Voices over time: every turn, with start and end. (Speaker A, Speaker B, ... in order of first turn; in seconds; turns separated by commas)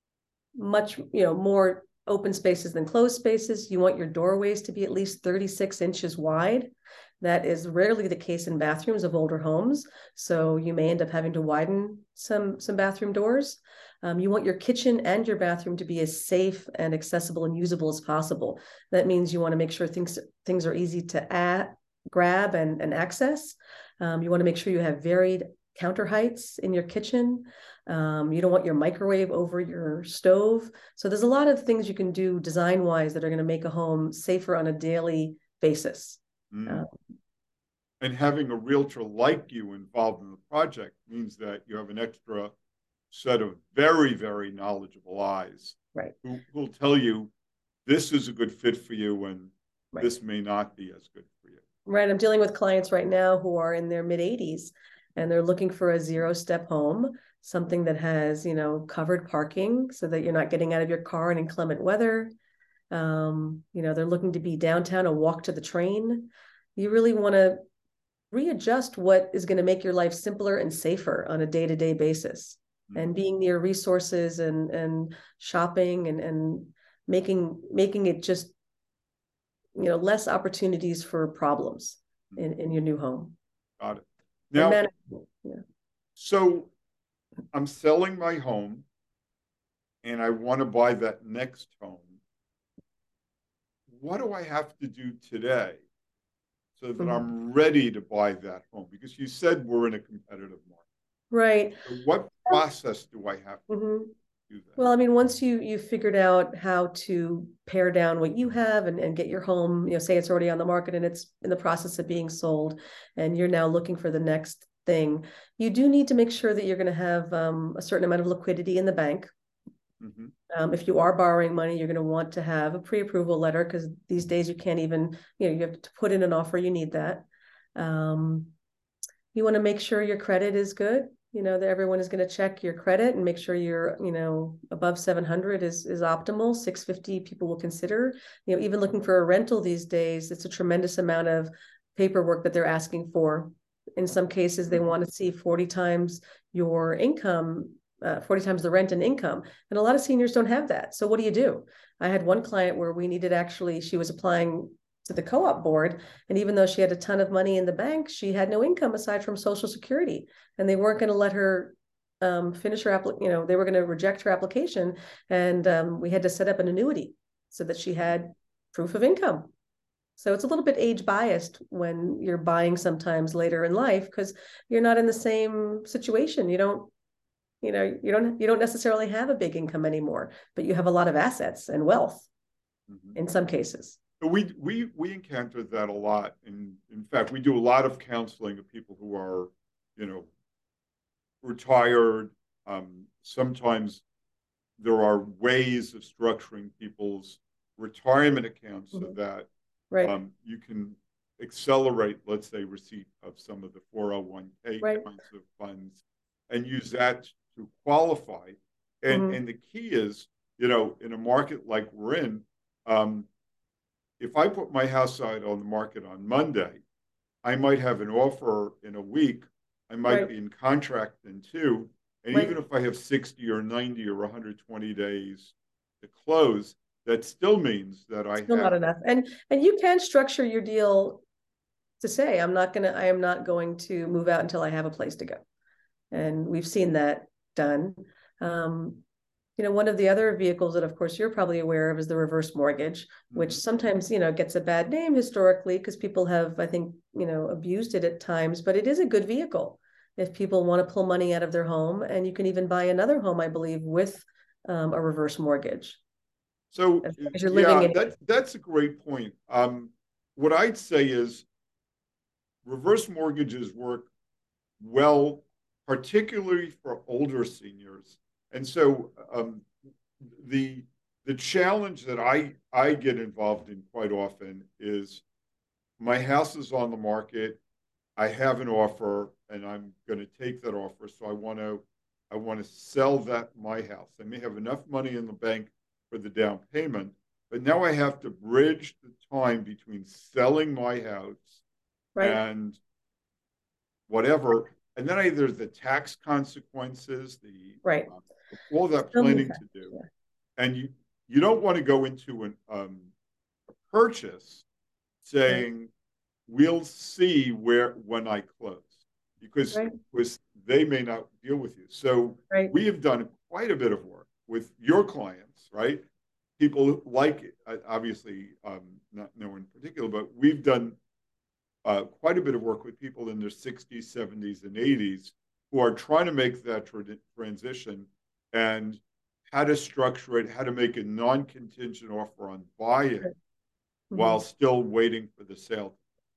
Speaker A: 0.6-36.9, Speaker B: 36.5-36.9, Speaker B: 38.0-42.5, Speaker B: 43.1-47.3, Speaker B: 47.9-51.6, Speaker A: 51.9-62.3, Speaker A: 62.9-67.6, Speaker A: 68.3-78.5, Speaker A: 79.8-83.3, Speaker B: 83.8-84.9, Speaker A: 84.6-85.6, Speaker B: 86.2-86.7, Speaker B: 87.5-88.9, Speaker B: 90.0-92.2, Speaker B: 93.9-95.8, Speaker B: 96.8-100.8, Speaker A: 101.3-101.8, Speaker B: 101.9-103.7, Speaker A: 103.7-104.1, Speaker B: 104.5-104.9, Speaker A: 104.8-119.3, Speaker B: 120.0-120.3, Speaker A: 120.5-128.5, Speaker A: 129.3-169.5, Speaker A: 170.2-176.9, Speaker A: 177.6-182.3, Speaker B: 182.9-183.2, Speaker A: 183.2-184.0, Speaker B: 184.2-190.3, Speaker B: 191.4-194.0, Speaker B: 194.8-199.5, Speaker B: 200.0-213.3, Speaker A: 209.1-209.4, Speaker B: 214.2-216.8, Speaker B: 217.4-228.8, Speaker A: 228.4-231.2, Speaker A: 232.0-235.4, Speaker A: 236.1-239.0, Speaker A: 239.6-256.0, Speaker B: 243.3-243.6, Speaker B: 256.7-261.4, Speaker A: 257.0-258.0, Speaker B: 262.6-264.1, Speaker B: 264.8-275.2, Speaker B: 276.0-277.6, Speaker B: 278.2-291.6, Speaker B: 292.2-292.8, Speaker B: 294.1-300.0, Speaker A: 297.8-298.1, Speaker A: 299.1-300.0, Speaker B: 300.6-303.1, Speaker B: 303.9-304.6, Speaker B: 305.2-305.9, Speaker B: 306.5-316.0, Speaker B: 316.6-321.0, Speaker B: 321.9-333.3, Speaker A: 334.1-334.4, Speaker B: 334.1-336.0